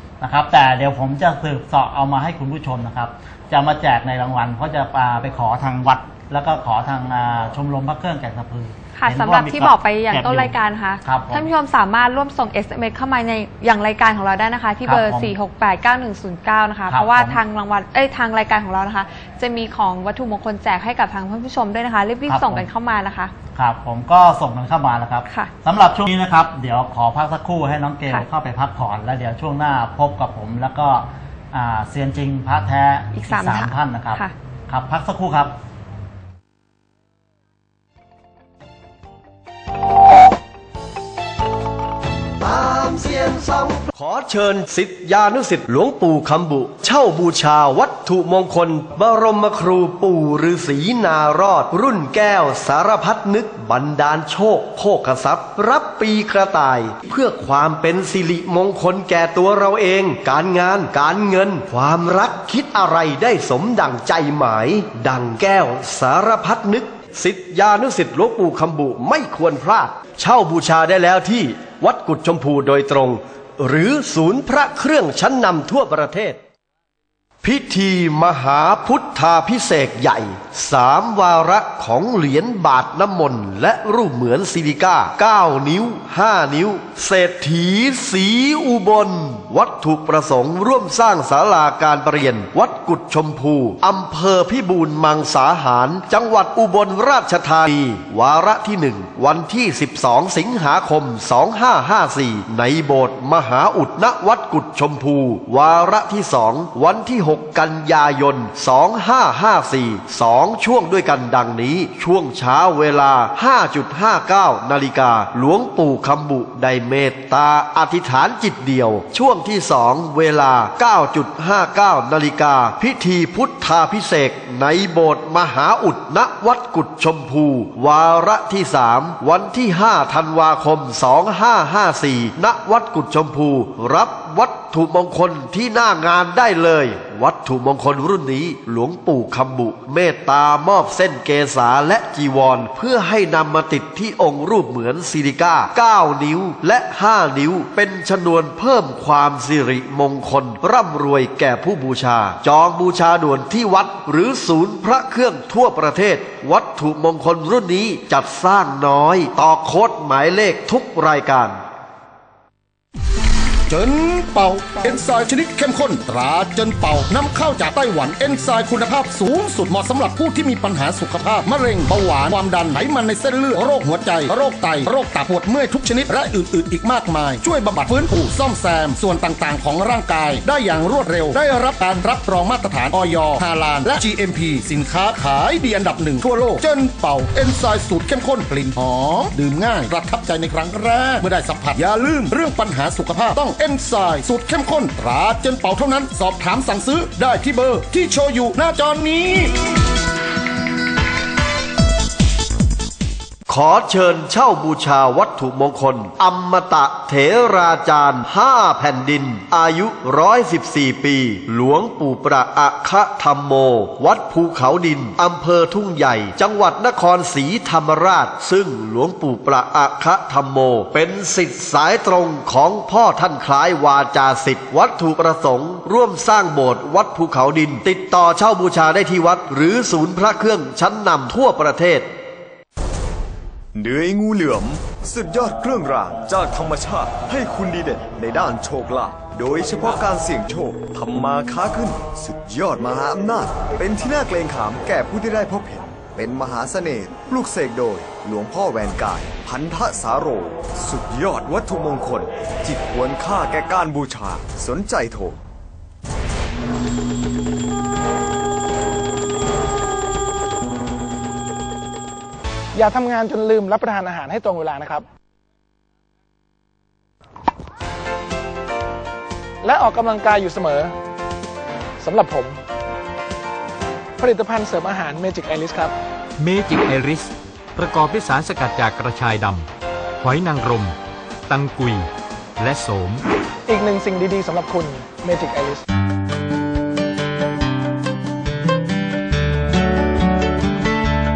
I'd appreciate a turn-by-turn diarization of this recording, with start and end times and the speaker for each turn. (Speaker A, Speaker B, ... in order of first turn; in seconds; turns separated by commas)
Speaker A: 0.2-11.5, Speaker B: 8.9-23.3, Speaker A: 14.8-15.3, Speaker A: 16.9-17.4, Speaker A: 22.3-22.7, Speaker A: 23.5-35.5, Speaker B: 25.3-25.5, Speaker B: 33.1-34.3, Speaker C: 42.4-76.4, Speaker C: 77.4-161.6, Speaker D: 163.7-199.5, Speaker C: 203.5-232.1, Speaker E: 233.7-255.4, Speaker F: 262.7-265.0, Speaker F: 269.6-270.9, Speaker F: 272.0-272.6, Speaker F: 274.2-275.9, Speaker G: 276.4-279.7, Speaker G: 280.2-281.0, Speaker G: 281.5-283.2, Speaker F: 283.7-285.8